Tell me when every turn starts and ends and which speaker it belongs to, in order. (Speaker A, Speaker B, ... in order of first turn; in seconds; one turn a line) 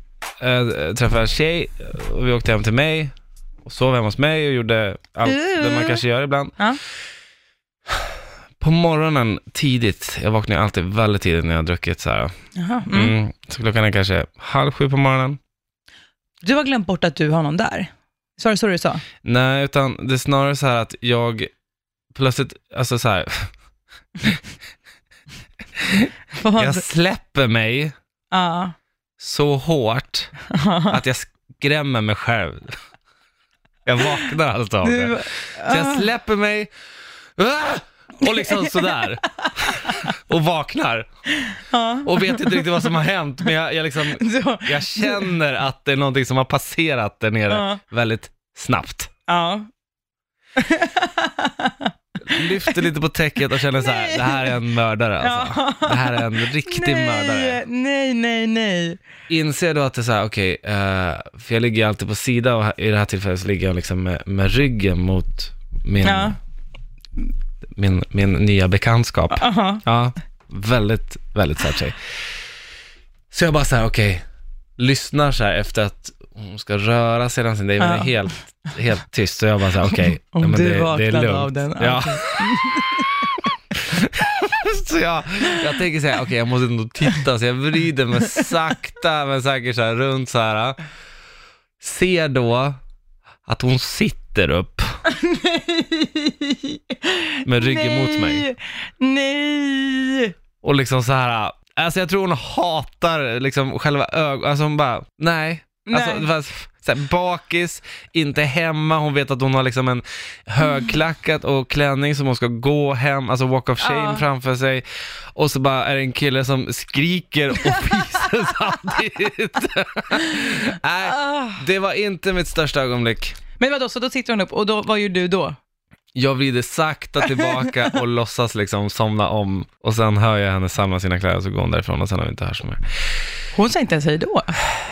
Speaker A: 0.4-3.1
Speaker A: 3.6-6.6
Speaker B: 5.2-6.0
Speaker A: 8.6-12.3
Speaker B: 12.6-13.1
Speaker A: 12.9-15.4
Speaker B: 16.4-19.0
Speaker A: 19.2-21.5
Speaker A: 22.1-23.5
Speaker A: 25.8-27.9
Speaker B: 26.4-26.8
Speaker B: 28.3-28.7
Speaker A: 29.2-30.3
Speaker B: 30.5-31.0
Speaker A: 30.9-32.8
Speaker A: 33.8-36.7
Speaker B: 34.8-36.1
Speaker A: 37.4-41.1
Speaker B: 38.2-40.1
Speaker B: 41.4-42.9
Speaker A: 42.0-49.1
Speaker B: 44.1-45.3
Speaker B: 47.5-47.8
Speaker B: 49.3-49.7
Speaker B: 50.6-52.8
Speaker A: 52.2-57.6
Speaker B: 53.8-54.6
Speaker B: 55.2-59.0
Speaker A: 59.3-66.4
Speaker B: 66.0-66.4
Speaker A: 67.8-72.0
Speaker B: 69.3-69.8
Speaker A: 73.3-74.2
Speaker A: 74.8-83.3
Speaker B: 77.8-78.4
Speaker B: 79.8-83.2
Speaker A: 83.8-90.8
Speaker B: 85.4-85.7
Speaker A: 91.8-92.8
Speaker A: 93.4-94.9
Speaker B: 95.1-100.3
Speaker A: 97.4-98.5
Speaker A: 100.6-123.4
Speaker B: 105.9-106.3
Speaker B: 113.8-114.2
Speaker B: 117.6-118.3
Speaker B: 121.0-121.6
Speaker B: 123.6-125.6
Speaker A: 126.1-132.8
Speaker B: 127.3-127.7
Speaker B: 133.5-134.6